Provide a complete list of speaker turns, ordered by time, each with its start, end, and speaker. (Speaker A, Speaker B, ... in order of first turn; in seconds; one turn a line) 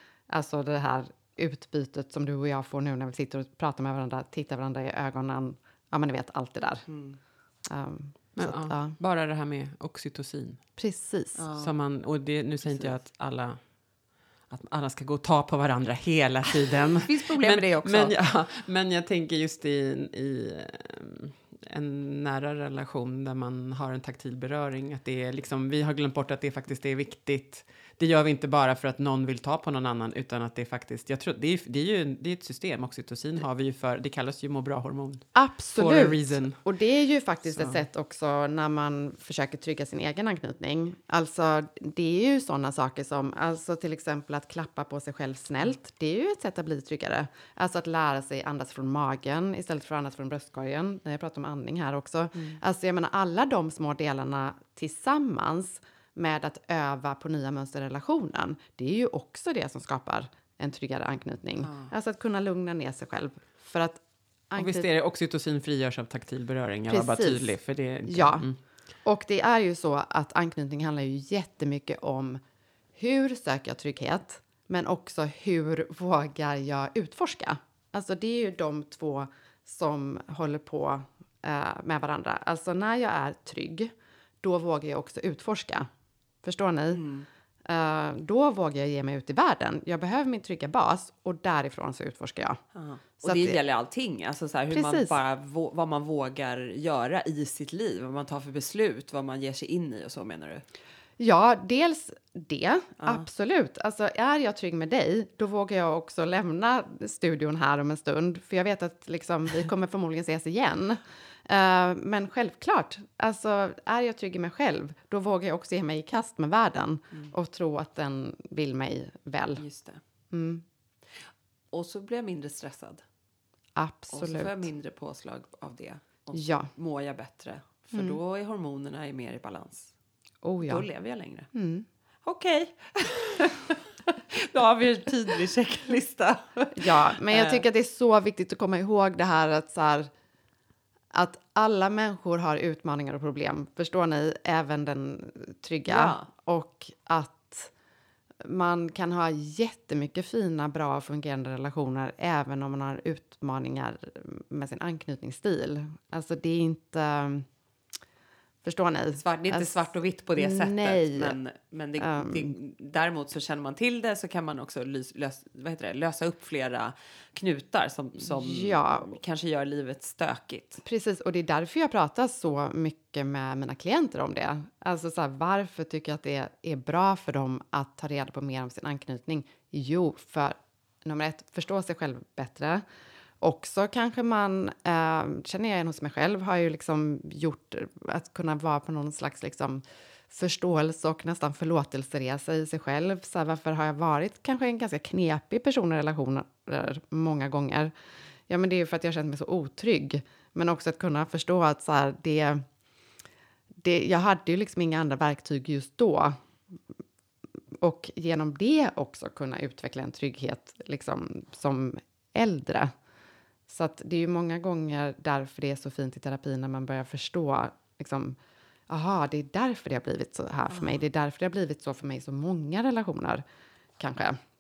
Speaker A: 0.3-6.8
Speaker B: 6.9-7.2
Speaker A: 7.7-8.9
Speaker C: 8.3-10.7
Speaker A: 10.8-11.4
Speaker B: 11.3-11.7
Speaker C: 11.6-13.7
Speaker B: 12.6-12.9
Speaker C: 14.5-36.6
Speaker B: 17.0-18.1
Speaker A: 35.3-64.9
Speaker B: 61.6-61.9
Speaker C: 64.5-68.6
Speaker A: 66.9-68.5
Speaker A: 69.0-72.4
Speaker A: 73.0-85.9
Speaker A: 86.4-87.0
Speaker B: 86.9-87.2
Speaker A: 87.6-92.6
Speaker B: 92.7-100.6
Speaker A: 93.2-93.6
Speaker A: 94.7-95.2
Speaker A: 101.2-119.6
Speaker B: 119.6-120.0
Speaker A: 120.3-120.6
Speaker B: 121.7-123.0
Speaker A: 123.8-124.7
Speaker B: 124.1-129.9
Speaker A: 126.3-126.7
Speaker A: 127.9-128.2
Speaker A: 130.4-130.8
Speaker B: 130.6-131.5
Speaker A: 131.5-131.8
Speaker B: 132.2-137.6
Speaker A: 136.8-140.1
Speaker A: 141.1-147.7
Speaker B: 145.9-146.3
Speaker A: 148.4-157.5
Speaker A: 158.6-161.3
Speaker B: 159.2-170.8
Speaker A: 162.0-162.5
Speaker A: 168.2-169.1
Speaker A: 170.8-182.8
Speaker A: 183.4-197.9
Speaker A: 198.5-202.6
Speaker A: 203.8-206.4
Speaker A: 207.8-212.9
Speaker A: 213.7-218.4
Speaker A: 218.9-223.4
Speaker A: 224.0-224.4